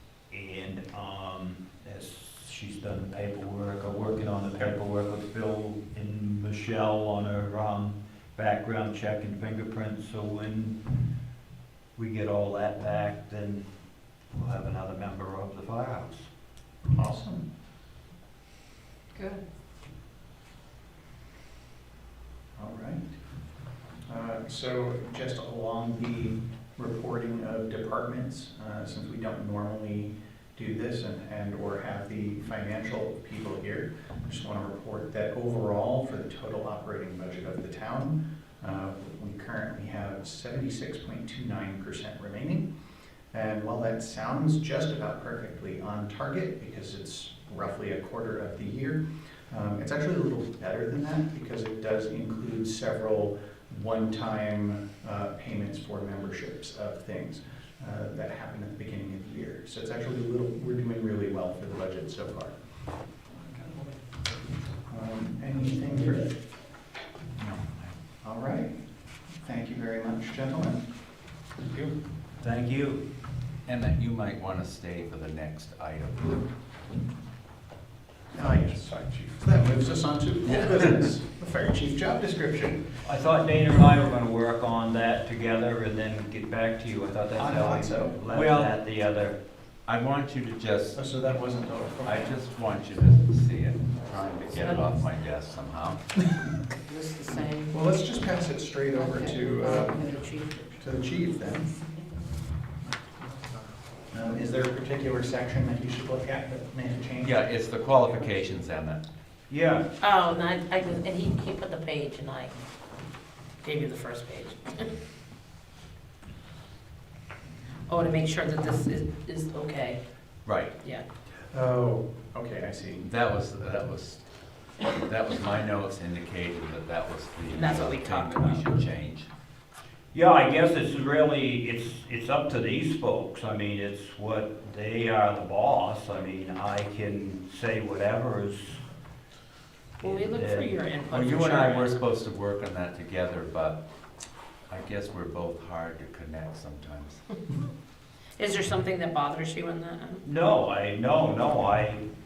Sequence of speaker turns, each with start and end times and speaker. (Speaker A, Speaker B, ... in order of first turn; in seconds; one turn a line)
Speaker A: 0.3-10.8
Speaker A: 11.9-13.6
Speaker A: 14.3-16.3
Speaker B: 16.9-17.4
Speaker B: 22.6-23.1
Speaker B: 24.1-42.7
Speaker B: 43.3-62.5
Speaker B: 64.9-66.3
Speaker C: 67.4-67.9
Speaker B: 68.2-68.8
Speaker B: 69.4-70.8
Speaker A: 71.7-73.0
Speaker C: 73.7-76.5
Speaker B: 78.3-82.9
Speaker C: 80.4-81.0
Speaker A: 83.0-89.3
Speaker B: 87.3-88.2
Speaker C: 88.3-88.7
Speaker C: 89.8-91.0
Speaker B: 90.9-92.3
Speaker C: 92.0-96.1
Speaker B: 94.0-94.7
Speaker D: 96.8-97.8
Speaker B: 97.3-101.8
Speaker D: 98.9-100.7
Speaker B: 104.1-107.4
Speaker C: 107.2-109.0
Speaker A: 109.5-109.8
Speaker E: 110.0-112.5
Speaker E: 113.6-114.9
Speaker E: 117.9-120.0
Speaker C: 120.4-120.7
Speaker E: 120.8-121.0
Speaker B: 121.5-123.1
Speaker C: 123.0-129.3
Speaker E: 127.5-128.7
Speaker A: 130.1-138.8
Speaker A: 140.0-140.7
Speaker E: 140.0-142.0
Speaker C: 141.1-143.8
Speaker C: 144.7-147.2
Speaker E: 148.3-150.2
Speaker A: 150.2-152.0